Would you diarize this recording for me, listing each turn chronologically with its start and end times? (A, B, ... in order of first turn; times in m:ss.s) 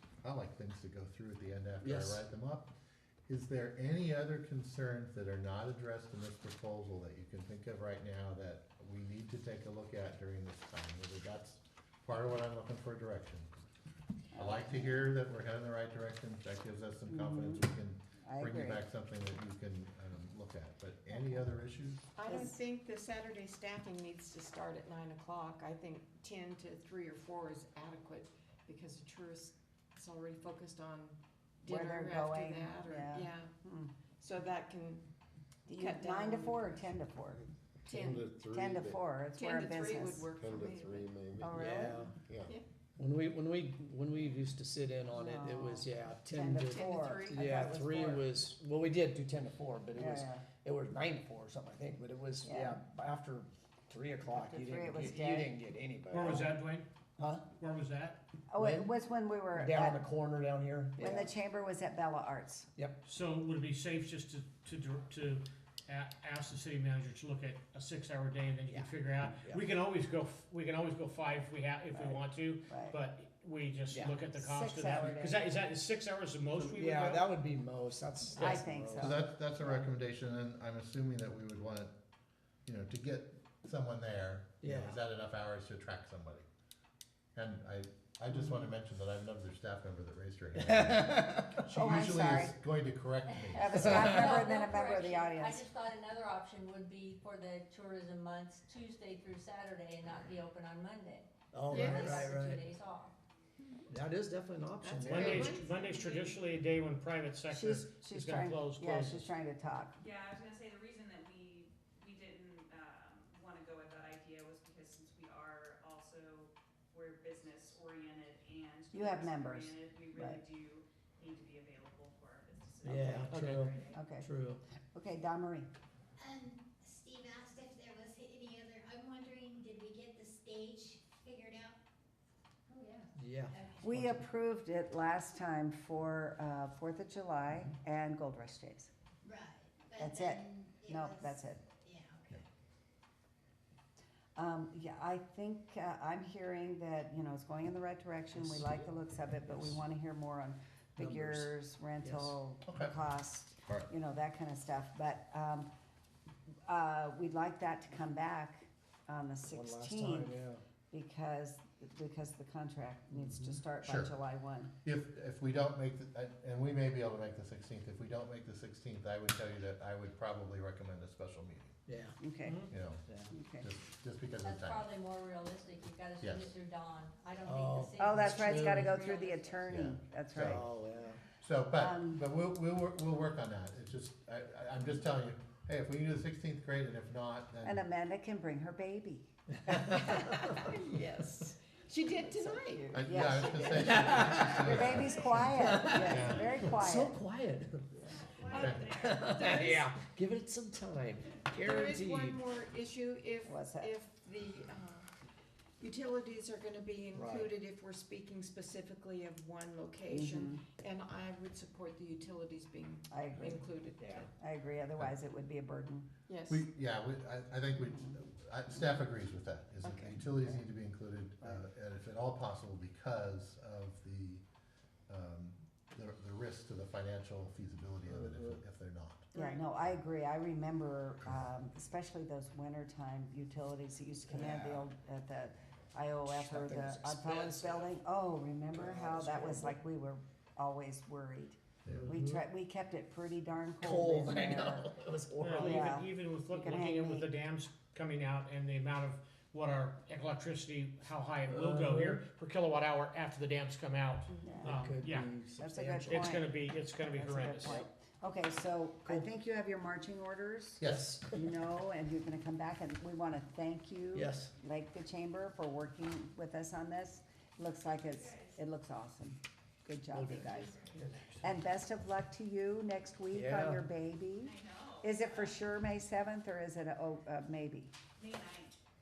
0:00.2-0:02.7 A
0:01.8-0:02.2 B
0:03.3-0:13.5 A
0:14.3-0:15.0 C
0:14.4-0:22.0 A
0:17.1-0:17.7 C
0:18.2-0:18.8 C
0:22.2-0:33.5 D
0:22.3-0:22.6 C
0:31.7-0:33.9 C
0:34.2-0:35.0 D
0:35.7-0:40.3 C
0:35.7-0:36.8 D
0:37.9-0:38.3 D
0:37.9-0:39.0 E
0:39.3-0:41.2 D
0:40.3-0:41.5 E
0:41.3-0:42.1 C
0:41.6-0:42.2 B
0:43.0-0:56.5 B
0:45.1-0:48.2 C
0:46.7-0:47.4 D
0:49.9-0:50.4 C
0:52.4-0:52.8 C
0:54.3-0:55.5 C
0:56.1-0:56.9 F
0:56.2-0:56.5 C
0:57.2-0:57.4 B
0:57.6-0:58.2 F
0:58.5-1:00.0 C
0:58.6-0:58.9 B
0:59.5-1:01.3 B
1:01.0-1:02.7 C
1:03.0-1:17.3 F
1:08.7-1:09.6 B
1:11.9-1:13.0 C
1:13.9-1:14.2 B
1:14.3-1:15.4 C
1:16.7-1:19.8 B
1:18.3-1:19.2 C
1:19.0-1:21.9 A
1:22.7-1:26.5 A
1:24.6-1:25.0 B
1:27.3-1:34.2 A
1:28.3-1:28.7 C
1:30.6-1:31.6 B
1:31.7-1:32.6 C
1:33.3-1:43.1 G
1:33.6-1:35.7 C
1:33.9-1:34.3 B
1:41.5-1:42.6 B
1:41.7-1:42.3 D
1:43.9-1:45.6 B
1:44.8-1:46.4 D
1:45.0-1:49.2 F
1:47.5-1:50.0 C
1:50.0-2:03.9 H
1:58.9-2:00.4 C
2:02.8-2:04.6 B
2:02.9-2:03.8 D
2:03.2-2:03.7 F
2:03.9-2:04.3 C
2:04.9-2:05.7 C
2:06.2-2:11.8 I
2:12.7-2:13.9 I
2:13.2-2:14.3 B
2:13.8-2:18.9 C
2:19.2-2:22.4 I
2:20.0-2:21.6 C
2:24.4-2:35.7 C
2:28.3-2:28.9 B
2:29.4-2:29.8 B
2:31.0-2:32.4 B
2:32.6-2:32.9 A
2:36.6-2:40.4 C
2:39.5-2:40.6 B
2:40.9-2:44.7 C
2:43.1-2:43.6 B
2:43.8-2:44.1 A
2:44.8-2:51.8 A
2:51.9-2:52.2 B
2:52.2-2:52.6 C
2:52.4-2:52.7 F
2:52.7-2:53.0 A
2:53.1-2:53.3 B
2:53.3-2:53.7 C
2:53.6-2:54.9 A
2:54.4-2:59.9 G
2:56.2-2:56.5 A
2:57.4-2:58.9 B
2:58.0-3:00.6 C
2:59.7-3:00.6 A
3:00.4-3:01.2 B
3:01.4-3:07.8 A
3:01.8-3:02.2 C
3:07.6-3:09.3 C
3:09.8-3:16.5 D
3:12.5-3:14.0 C
3:12.9-3:16.8 A
3:13.7-3:18.1 B
3:14.5-3:17.2 C
3:18.4-3:19.9 D
3:18.4-3:19.4 H
3:18.5-3:18.9 A
3:18.8-3:22.4 B
3:21.5-3:25.1 D
3:23.4-3:23.9 C
3:25.8-3:34.3 D
3:27.1-3:27.5 B
3:30.1-3:30.6 C
3:33.1-3:33.6 C
3:33.4-3:34.3 B
3:34.4-3:36.1 C
3:36.3-3:36.6 D
3:36.5-3:44.4 A
3:37.8-3:38.1 C
3:39.8-3:40.2 D
3:45.1-3:49.3 A
3:49.4-4:04.9 C
3:54.3-3:54.9 B
3:56.2-3:57.9 B
3:58.7-3:59.8 B
4:01.8-4:02.1 A
4:01.9-4:02.4 B
4:03.8-4:06.0 B
4:05.4-4:15.3 F
4:05.4-4:07.3 C
4:11.5-4:12.2 B
4:14.4-4:14.8 C
4:14.6-4:16.4 B
4:15.6-4:30.8 C
4:16.0-4:17.8 F
4:20.8-4:21.1 A
4:20.8-4:21.4 B
4:24.1-4:24.5 B
4:28.2-4:28.6 H
4:30.1-4:31.6 B
4:31.4-4:37.9 C
4:33.3-4:33.8 B
4:34.4-4:35.4 H
4:38.2-4:38.8 H